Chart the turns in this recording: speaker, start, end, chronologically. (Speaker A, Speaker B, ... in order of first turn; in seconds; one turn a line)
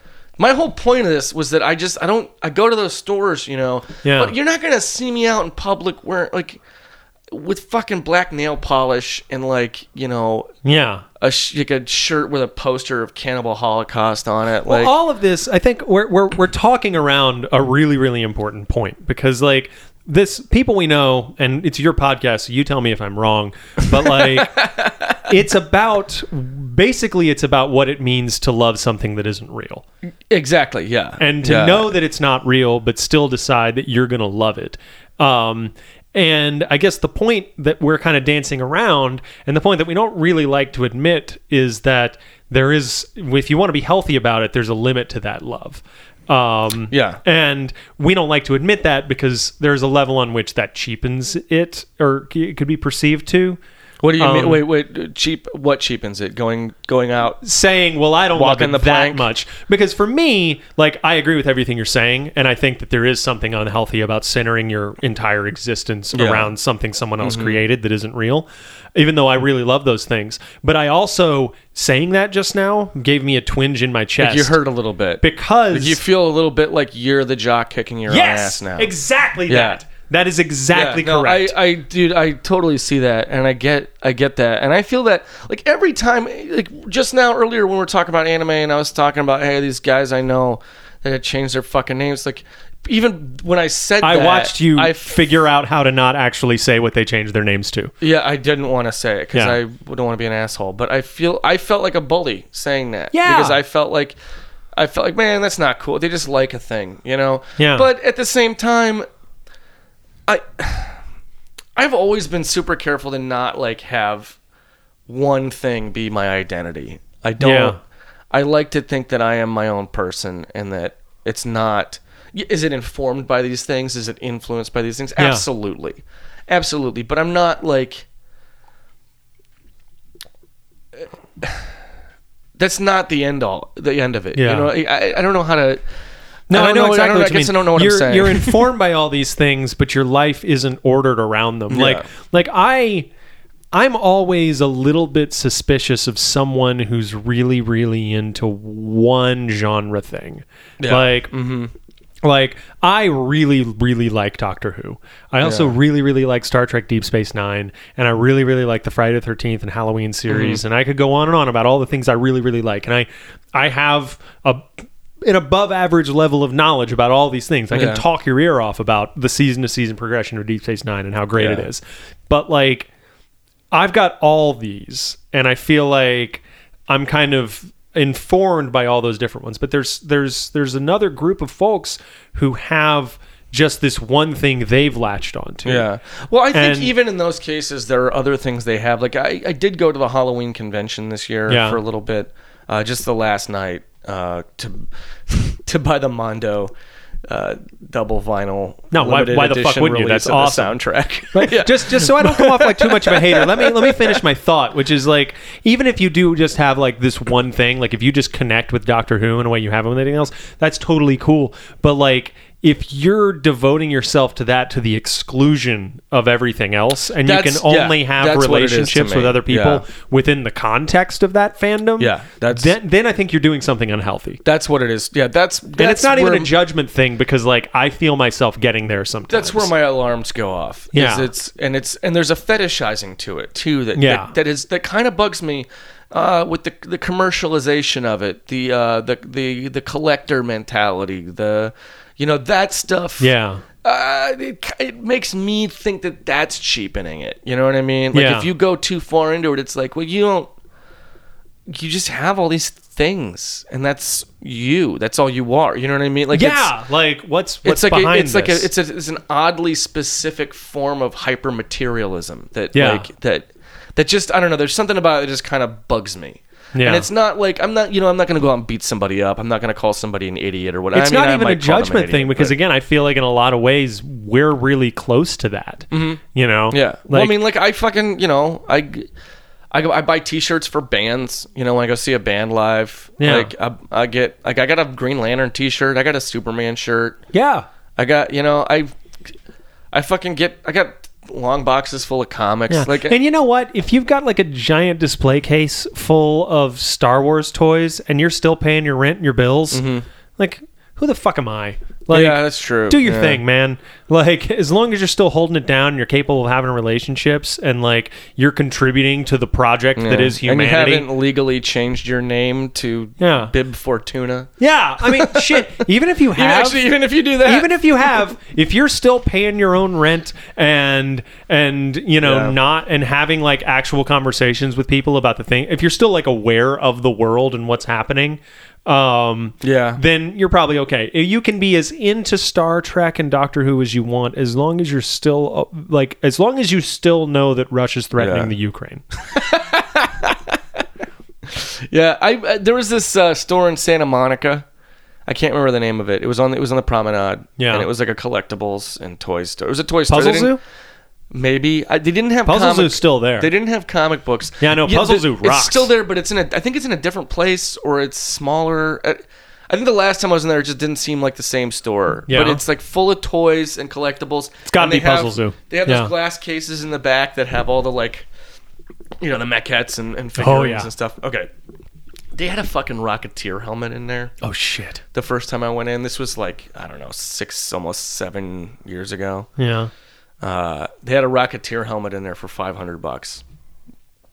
Speaker A: 0.4-6.6
Speaker B: 4.0-4.3
Speaker A: 7.3-10.5
Speaker B: 10.6-11.0
Speaker A: 11.2-14.9
Speaker B: 14.7-24.7
Speaker A: 24.0-25.2
Speaker B: 25.3-29.8
Speaker A: 30.3-31.9
Speaker B: 31.2-53.6
Speaker A: 46.9-47.2
Speaker A: 54.0-57.4
Speaker B: 54.2-54.6
Speaker B: 57.4-74.6
Speaker A: 58.3-59.2
Speaker A: 66.1-66.5
Speaker A: 67.2-67.6
Speaker A: 74.2-78.9
Speaker B: 75.2-76.0
Speaker B: 78.1-81.5
Speaker A: 79.5-79.8
Speaker A: 80.7-95.2
Speaker B: 94.0-97.9
Speaker A: 98.0-104.2
Speaker B: 99.3-99.6
Speaker B: 103.1-103.6
Speaker A: 104.8-109.1
Speaker B: 107.6-107.9
Speaker A: 110.3-111.0
Speaker A: 111.8-114.4
Speaker A: 115.1-117.8
Speaker B: 117.4-117.8
Speaker A: 118.3-128.1
Speaker B: 125.2-125.5
Speaker A: 132.6-135.8
Speaker B: 134.3-134.7
Speaker B: 136.5-143.1
Speaker A: 136.5-138.7
Speaker A: 141.7-142.1
Speaker B: 143.7-151.3
Speaker A: 150.8-151.7
Speaker B: 152.2-172.9
Speaker A: 155.4-155.7
Speaker A: 160.3-160.6
Speaker A: 167.7-168.0
Speaker A: 171.3-171.7
Speaker B: 173.7-185.8
Speaker A: 185.6-196.7
Speaker B: 186.5-186.9
Speaker B: 191.5-191.8
Speaker A: 197.3-204.2
Speaker B: 198.9-200.8
Speaker B: 201.3-224.4
Speaker A: 217.2-219.8
Speaker A: 222.0-222.7
Speaker A: 224.4-226.5
Speaker B: 225.8-229.7
Speaker A: 229.3-250.5
Speaker B: 230.9-231.3
Speaker B: 233.9-234.3
Speaker B: 243.2-243.6
Speaker B: 248.1-248.5
Speaker A: 251.7-256.7
Speaker B: 256.3-258.7
Speaker A: 257.6-272.5
Speaker B: 262.7-263.1
Speaker B: 266.7-267.1
Speaker B: 270.9-277.4
Speaker A: 275.9-279.1
Speaker A: 279.7-287.2
Speaker B: 283.2-283.5
Speaker B: 287.3-287.6
Speaker A: 288.0-288.9
Speaker A: 289.9-293.2
Speaker B: 292.7-299.8
Speaker A: 299.7-300.0
Speaker B: 300.4-311.1
Speaker A: 302.1-303.4
Speaker A: 309.9-317.8
Speaker B: 313.2-313.5
Speaker B: 314.6-316.9
Speaker B: 317.4-339.0
Speaker A: 322.2-322.6
Speaker A: 329.6-330.0
Speaker A: 338.2-338.5
Speaker A: 339.3-340.6
Speaker A: 341.5-344.6
Speaker A: 345.2-350.6
Speaker B: 347.6-347.9
Speaker B: 350.1-350.6
Speaker A: 351.3-368.3
Speaker B: 352.4-353.5
Speaker B: 354.6-355.9
Speaker B: 362.3-362.6
Speaker B: 364.6-366.1
Speaker A: 369.2-371.5
Speaker B: 370.4-370.9
Speaker A: 372.3-374.3
Speaker B: 374.4-375.0
Speaker A: 375.1-379.5
Speaker B: 379.6-379.9
Speaker A: 380.4-383.4